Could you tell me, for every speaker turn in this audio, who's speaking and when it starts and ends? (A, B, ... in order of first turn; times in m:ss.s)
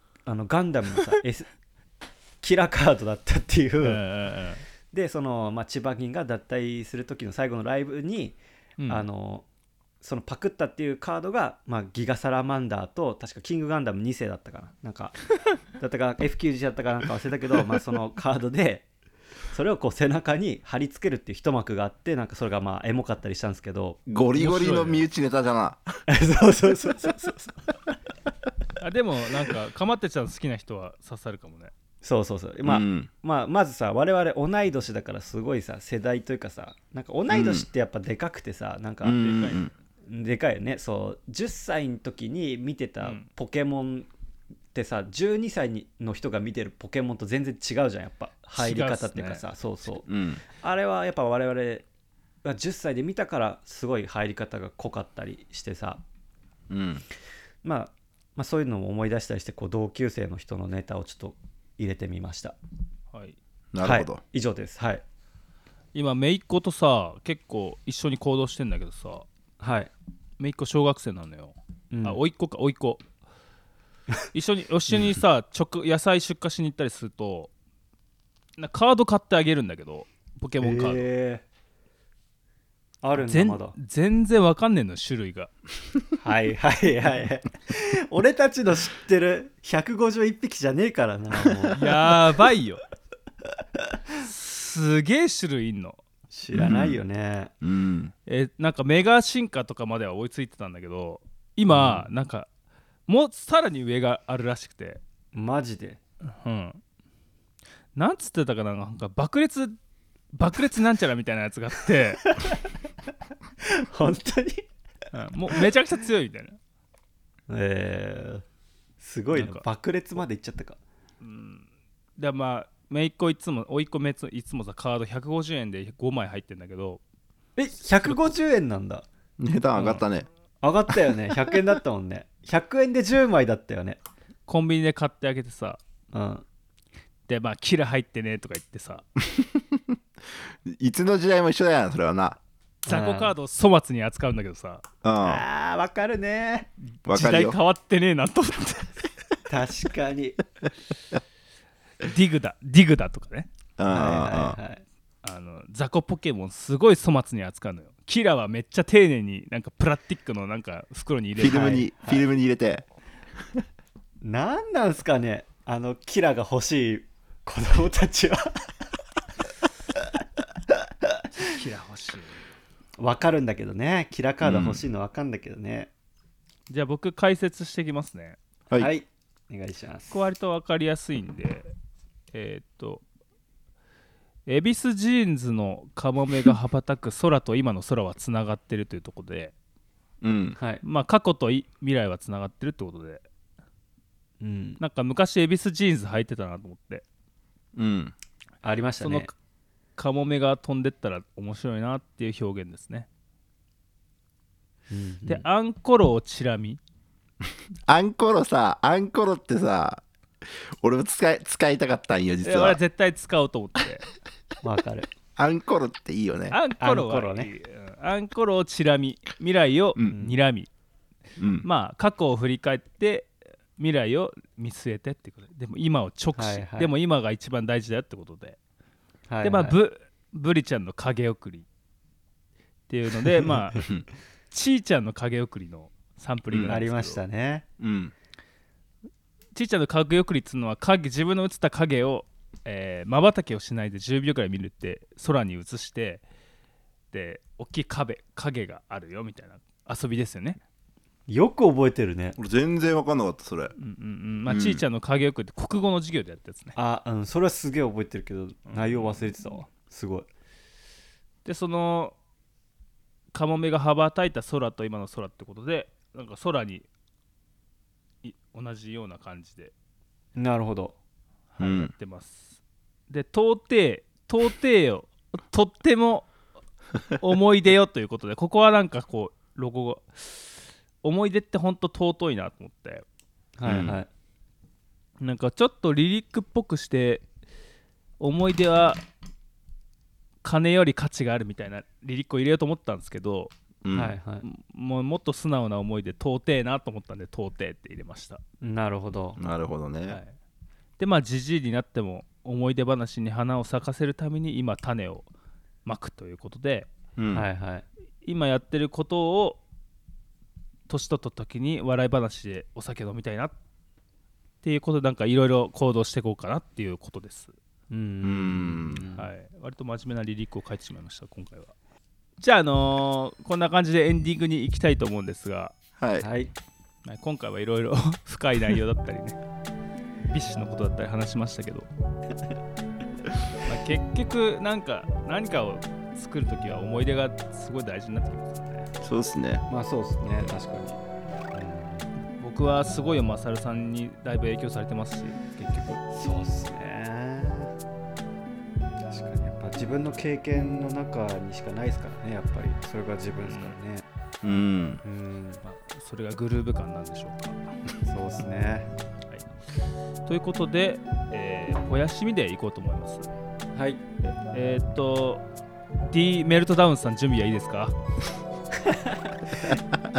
0:00.3-0:01.5 A
0:02.4-0:04.0 A
0:03.8-0:04.6 B
0:04.9-0:09.5 A
0:10.0-0:15.2 A
0:15.7-0:18.9 A
0:19.5-0:24.0 A
0:24.1-0:26.0 C
0:24.4-0:25.0 B
0:26.1-0:27.6 A
0:28.8-0:31.7 B
0:32.0-0:39.3 A
0:32.6-0:33.1 C
0:37.3-0:37.7 C
0:39.0-0:39.7 C
0:39.2-0:39.7 B
0:40.1-0:44.1 A
0:43.0-0:43.3 B
0:44.7-0:51.9 A
0:48.6-0:49.4 B
0:50.1-0:50.4 C
0:52.4-0:56.0 A
0:56.7-0:57.0 C
0:57.6-1:02.6 A
1:03.1-1:03.4 B
1:03.7-1:04.2 C
1:03.8-1:05.0 A
1:05.9-1:09.3 B
1:09.6-1:09.9 A
1:10.4-1:13.0 B
1:11.9-1:12.2 A
1:14.3-1:17.5 B
1:18.6-1:21.1 B
1:20.6-1:21.4 A
1:23.0-1:23.7 A
1:23.2-1:25.5 B
1:26.2-1:32.1 A
1:31.7-1:32.8 B
1:34.2-1:36.0 B
1:36.3-1:37.5 A
1:36.5-1:37.0 C
1:37.6-1:38.1 C
1:38.3-1:42.5 B
1:41.7-1:42.1 A
1:43.1-1:45.0 B
1:45.3-1:46.0 A
1:46.3-1:46.8 B
1:48.0-1:49.8 B
1:50.3-1:52.4 B
1:52.2-1:52.7 A
1:53.6-1:54.7 A
1:55.1-1:56.6 B
1:57.5-1:58.4 A
1:59.0-2:00.8 A
1:59.3-1:59.6 B
2:01.2-2:01.6 B
2:02.2-2:07.0 B
2:07.6-2:09.1 A
2:09.4-2:10.3 C
2:09.8-2:10.0 B
2:10.6-2:14.0 A
2:14.5-2:15.8 B
2:16.1-2:16.4 A
2:17.3-2:19.0 B
2:19.3-2:20.0 C
2:20.6-2:22.4 C
2:22.9-2:23.3 A
2:22.9-2:24.8 B
2:25.0-2:25.4 C
2:25.2-2:26.7 A
2:27.0-2:29.0 B
2:27.1-2:27.6 C
2:29.5-2:30.4 A
2:32.0-2:33.5 B
2:33.8-2:34.6 C
2:33.9-2:34.8 A
2:35.2-2:41.8 B
2:41.4-2:42.9 C
2:41.5-2:42.2 A
2:44.2-2:48.7 A
2:51.3-2:52.4 B
2:53.0-2:55.9 A
2:54.4-2:54.8 C
2:56.7-2:58.4 B
2:58.8-3:00.2 A
3:00.1-3:01.7 B
3:02.3-3:03.0 B
3:04.5-3:09.5 B
3:10.2-3:10.6 C
3:10.6-3:10.8 A
3:10.8-3:13.2 B
3:14.4-3:14.8 A
3:14.8-3:17.0 B
3:17.8-3:18.1 C
3:18.6-3:19.3 A
3:19.0-3:19.3 B
3:20.0-3:23.1 B
3:24.9-3:25.4 A
3:25.3-3:26.8 B
3:27.9-3:30.0 C
3:30.8-3:32.8 C
3:32.4-3:34.1 B
3:34.6-3:35.1 A
3:35.4-3:36.6 C
3:36.5-3:40.7 B
3:36.8-3:37.5 A
3:40.1-3:40.4 A
3:41.4-3:41.7 C
3:41.6-3:48.6 B
3:46.4-3:46.9 A
3:49.3-3:49.8 A
3:49.4-3:51.6 B
3:52.9-3:57.2 B
3:56.5-3:56.8 C
3:56.7-3:57.6 A
3:57.8-3:58.1 C
3:59.6-4:06.2 B
4:07.1-4:10.6 B
4:11.3-4:12.4 A
4:12.4-4:13.7 C
4:13.8-4:16.8 B
4:14.5-4:14.8 C
4:16.8-4:20.3 A
4:18.7-4:19.2 B
4:21.4-4:22.2 B
4:23.3-4:26.9 B
4:28.2-4:29.7 B
4:30.4-4:31.0 A
4:31.5-4:32.6 B
4:31.6-4:31.9 C
4:33.1-4:36.3 B
4:37.1-4:43.0 B
4:43.6-4:44.1 A
4:43.7-4:44.0 C
4:45.2-4:47.2 B
4:48.2-4:49.0 B
4:50.4-4:53.5 B
4:53.8-4:54.2 C
4:53.9-4:54.4 A
4:54.4-4:58.4 B
4:58.6-4:59.4 A
4:59.4-5:00.2 C
5:01.0-5:05.3 B
5:05.8-5:06.9 B
5:07.2-5:07.4 C
5:07.3-5:07.8 A
5:08.2-5:09.6 B
5:10.9-5:13.5 B
5:14.6-5:17.5 B
5:17.9-5:19.3 A
5:18.2-5:19.0 C
5:19.2-5:21.7 B
5:22.4-5:25.7 B
5:26.0-5:26.2 C
5:26.2-5:26.5 A
5:27.0-5:29.4 B
5:30.3-5:31.9 B
5:33.6-5:38.9 B
5:39.0-5:39.6 C
5:39.7-5:41.0 A
5:41.5-5:42.1 A
5:42.4-5:46.0 B
5:46.1-5:47.7 A
5:49.0-5:54.1 A
5:53.5-5:53.7 B
5:54.4-5:55.0 C
5:55.0-5:55.6 A
5:55.6-5:57.8 B
5:58.0-5:58.9 A
6:00.3-6:03.3 B
6:03.8-6:04.0 A
6:04.2-6:05.4 B
6:06.1-6:08.0 B
6:08.8-6:09.8 A